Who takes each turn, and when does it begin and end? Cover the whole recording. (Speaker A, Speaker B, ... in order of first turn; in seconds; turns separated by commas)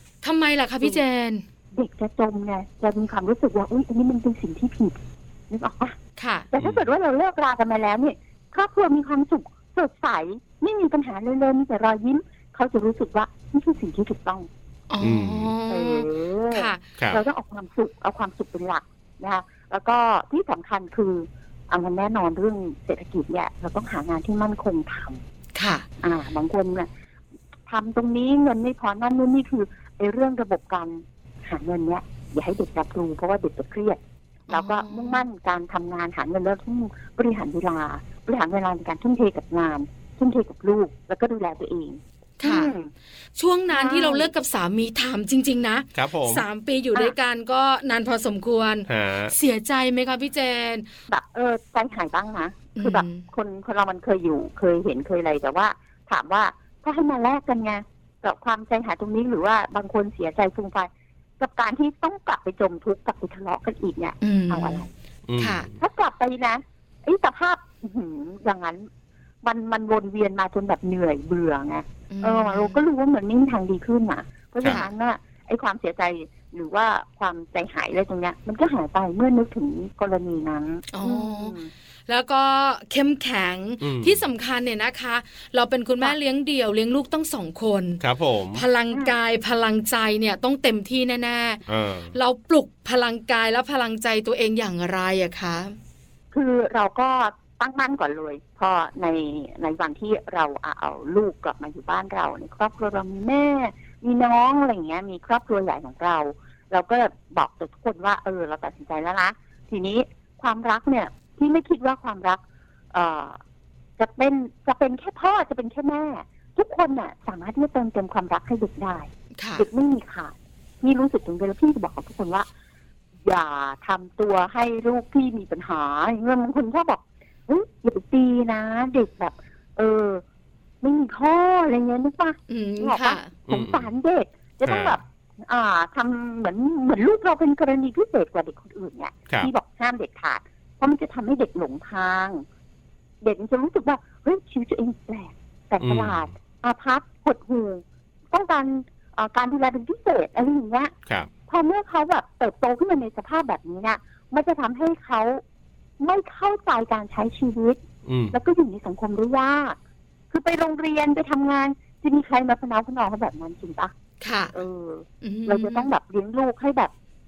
Speaker A: 0.2-1.4, Speaker B: 1.7-5.0, Speaker B: 5.5-6.0, Speaker A: 6.2-6.5, Speaker B: 6.5-14.5, Speaker C: 6.6-6.9, Speaker A: 14.9-16.8, Speaker C: 15.0-15.5, Speaker B: 15.7-25.2, Speaker A: 25.5-25.9, Speaker B: 26.0-26.9, Speaker B: 27.7-42.9, Speaker A: 34.5-35.2, Speaker A: 42.4-42.7, Speaker A: 43.4-50.9, Speaker B: 43.7-44.3, Speaker C: 45.9-46.4, Speaker C: 48.9-49.3, Speaker B: 51.1-64.9, Speaker A: 52.8-53.2, Speaker A: 64.2-64.8, Speaker C: 65.3-65.7, Speaker A: 65.4-65.7, Speaker B: 65.8-68.9, Speaker B: 69.4-81.7, Speaker A: 72.1-72.8, Speaker A: 80.9-81.5, Speaker A: 82.1-88.0, Speaker C: 83.8-84.2, Speaker C: 88.0-88.6, Speaker A: 88.5-91.6, Speaker C: 91.7-92.1, Speaker A: 92.1-95.7, Speaker B: 96.3-112.4, Speaker B: 112.9-113.4, Speaker B: 114.0-122.5, Speaker A: 119.4-119.7, Speaker B: 123.2-130.2, Speaker B: 130.8-142.4, Speaker A: 132.5-133.3, Speaker C: 133.5-133.9, Speaker C: 134.6-135.0, Speaker B: 143.2-150.9, Speaker C: 145.8-146.2, Speaker B: 151.5-155.4, Speaker B: 156.0-157.8, Speaker C: 158.0-158.3, Speaker B: 158.3-159.8, Speaker B: 160.3-163.9, Speaker A: 164.2-164.5, Speaker B: 164.5-166.9, Speaker A: 165.2-165.9